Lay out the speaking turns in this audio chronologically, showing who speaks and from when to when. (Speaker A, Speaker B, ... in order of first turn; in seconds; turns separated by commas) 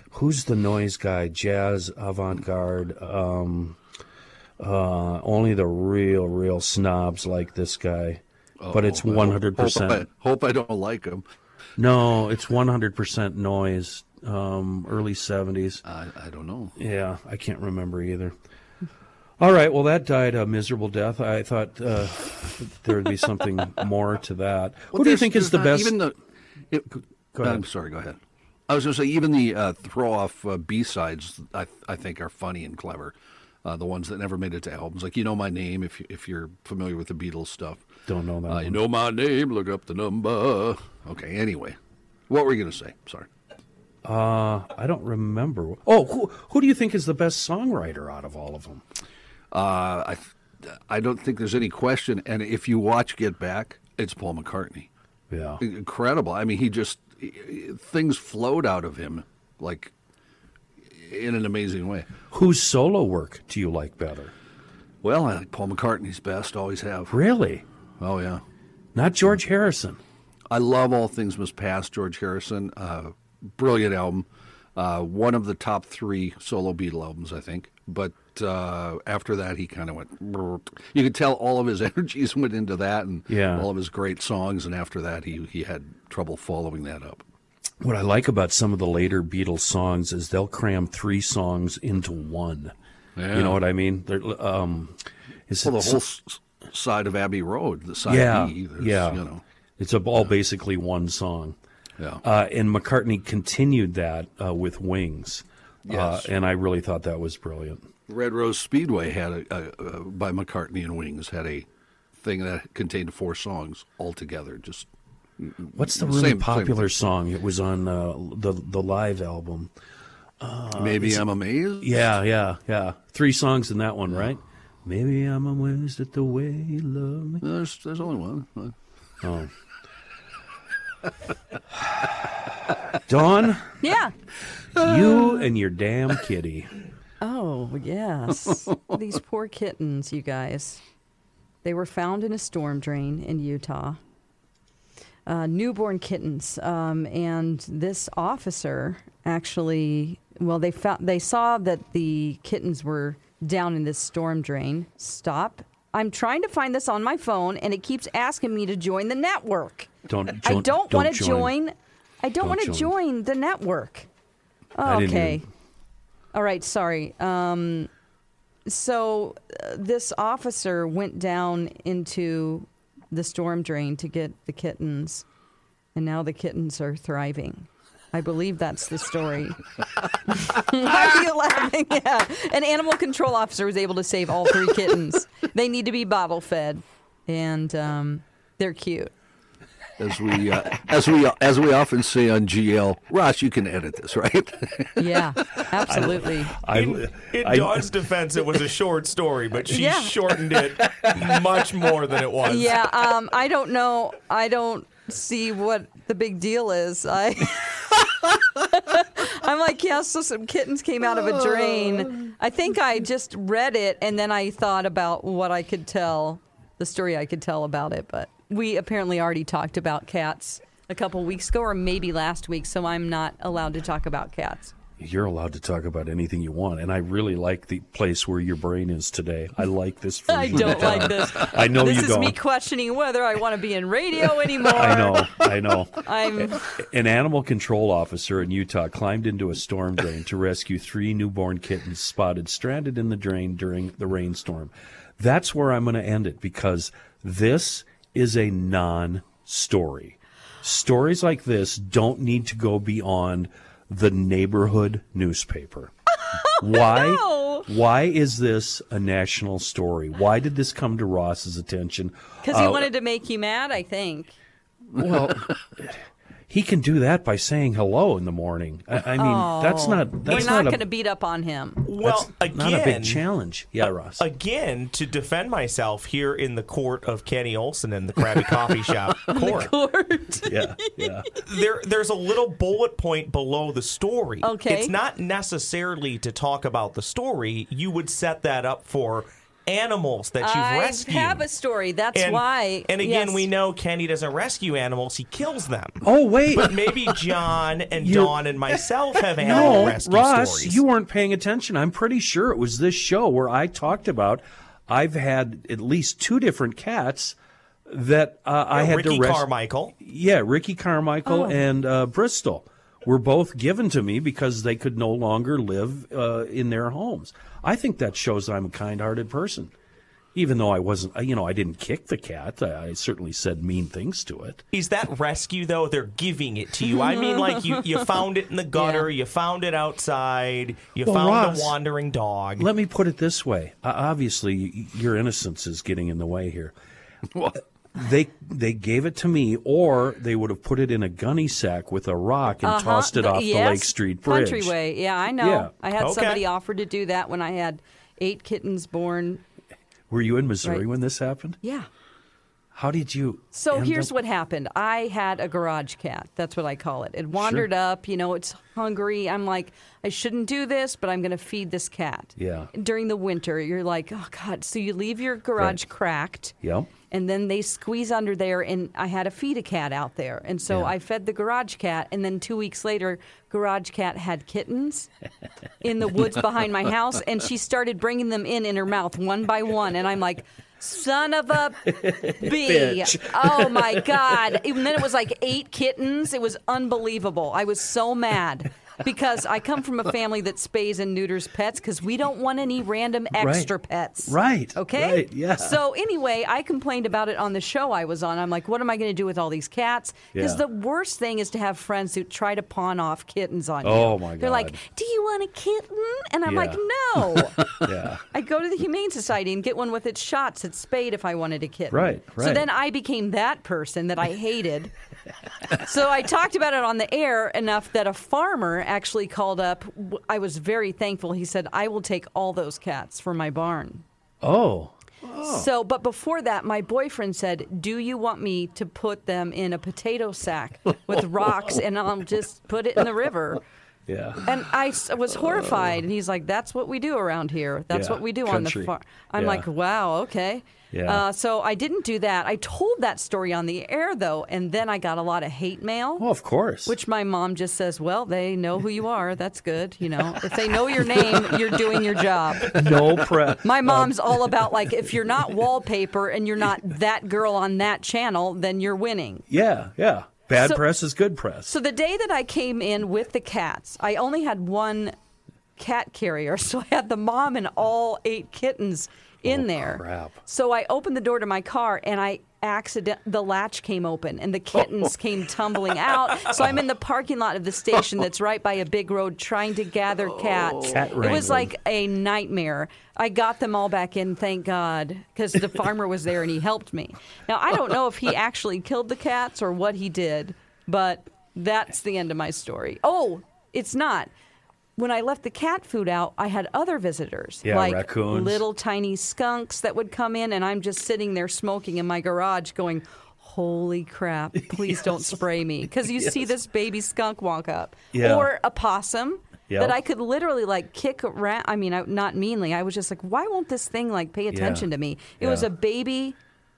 Speaker A: 0.1-3.8, Speaker A: 4.6-10.1, Speaker B: 8.6-11.2, Speaker A: 11.8-15.8, Speaker B: 15.8-16.8, Speaker A: 16.8-18.4, Speaker A: 19.4-26.0, Speaker B: 24.9-26.1, Speaker B: 26.7-28.2, Speaker A: 27.3-27.7, Speaker B: 28.7-37.9, Speaker A: 38.1-38.8, Speaker B: 38.5-41.8, Speaker B: 42.3-43.3, Speaker A: 44.0-48.8, Speaker B: 49.5-54.9, Speaker A: 55.3-55.6, Speaker B: 55.6-59.9, Speaker B: 60.9-62.1, Speaker A: 62.3-64.3, Speaker B: 65.0-67.2, Speaker A: 67.1-67.7, Speaker B: 68.0-68.4, Speaker A: 69.0-70.0, Speaker B: 70.5-87.2, Speaker A: 83.3-83.7, Speaker A: 87.8-92.7, Speaker B: 93.2-93.6, Speaker A: 93.3-96.0, Speaker B: 95.6-99.4, Speaker A: 98.0-99.2, Speaker A: 99.8-101.6, Speaker A: 102.2-107.9, Speaker B: 105.8-106.3, Speaker B: 108.1-111.7, Speaker B: 112.2-114.9, Speaker B: 115.5-116.9, Speaker A: 115.7-119.7, Speaker A: 120.4-121.3, Speaker B: 120.8-122.1, Speaker A: 121.8-127.4, Speaker B: 127.4-128.8, Speaker A: 129.2-129.5, Speaker A: 133.1-133.8, Speaker C: 133.8-134.1, Speaker A: 134.8-136.7, Speaker B: 134.8-135.4, Speaker C: 137.2-140.8, Speaker C: 141.6-144.0, Speaker C: 145.3-159.9, Speaker A: 160.1-161.5, Speaker C: 160.4-164.1, Speaker A: 162.4-162.9, Speaker C: 164.8-165.4, Speaker A: 164.8-165.4, Speaker C: 166.3-167.9, Speaker C: 168.7-175.2, Speaker C: 175.9-179.6, Speaker C: 180.3-189.1, Speaker B: 190.0-195.6, Speaker C: 195.0-196.6, Speaker A: 195.8-197.9, Speaker D: 196.7-202.8, Speaker C: 199.7-200.2, Speaker C: 202.5-224.7, Speaker A: 225.0-232.4, Speaker C: 230.3-235.4, Speaker B: 230.6-231.2, Speaker A: 234.6-255.9, Speaker C: 236.0-236.6, Speaker C: 256.3-257.7, Speaker A: 256.6-262.9, Speaker C: 262.4-264.4, Speaker A: 265.0-270.8, Speaker B: 265.0-265.5, Speaker C: 269.2-271.8, Speaker D: 271.9-273.2, Speaker A: 272.0-274.2, Speaker D: 274.2-279.7, Speaker C: 279.3-280.9, Speaker A: 280.5-281.3, Speaker D: 281.4-291.4, Speaker C: 284.4-284.9, Speaker C: 290.4-293.4, Speaker D: 292.1-300.8, Speaker A: 296.0-296.9, Speaker A: 298.0-298.4, Speaker A: 299.4-307.4, Speaker A: 307.9-309.5, Speaker D: 308.7-309.9, Speaker A: 310.0-319.7, Speaker C: 311.3-311.6, Speaker A: 320.3-324.6, Speaker D: 324.7-332.7, Speaker C: 328.8-329.1, Speaker A: 331.1-331.8, Speaker A: 332.6-336.8, Speaker B: 337.3-337.6, Speaker A: 337.9-344.8, Speaker C: 342.6-349.4, Speaker A: 345.4-345.7, Speaker D: 346.0-346.4, Speaker A: 350.1-351.6, Speaker C: 351.6-351.9, Speaker A: 352.7-354.1, Speaker C: 353.5-366.6, Speaker A: 357.4-357.7, Speaker A: 362.4-362.7, Speaker A: 366.6-366.9, Speaker C: 367.1-375.1, Speaker A: 370.7-370.9, Speaker C: 375.8-407.7, Speaker A: 381.8-384.6, Speaker A: 393.4-393.7, Speaker A: 394.3-395.8, Speaker A: 400.3-400.6, Speaker A: 403.8-404.8, Speaker A: 406.5-406.8, Speaker A: 407.6-408.2, Speaker C: 408.3-414.9, Speaker A: 411.9-412.7, Speaker C: 415.7-424.1, Speaker A: 424.4-424.9, Speaker B: 425.2-425.7, Speaker C: 425.4-433.6, Speaker A: 434.1-434.4, Speaker C: 434.4-446.3, Speaker A: 437.9-439.7, Speaker A: 440.9-441.2, Speaker A: 446.2-446.9, Speaker C: 446.9-452.9, Speaker A: 452.6-454.5, Speaker C: 453.6-459.4, Speaker A: 459.5-461.8, Speaker C: 460.6-460.9, Speaker C: 461.7-465.1, Speaker C: 465.8-494.3, Speaker A: 469.4-470.4, Speaker B: 480.3-481.1, Speaker A: 480.8-481.7, Speaker C: 495.0-516.4, Speaker A: 497.6-498.6, Speaker A: 504.6-505.4, Speaker A: 506.0-506.5, Speaker A: 508.1-508.5, Speaker A: 509.7-510.0, Speaker A: 514.5-514.9, Speaker A: 515.4-515.7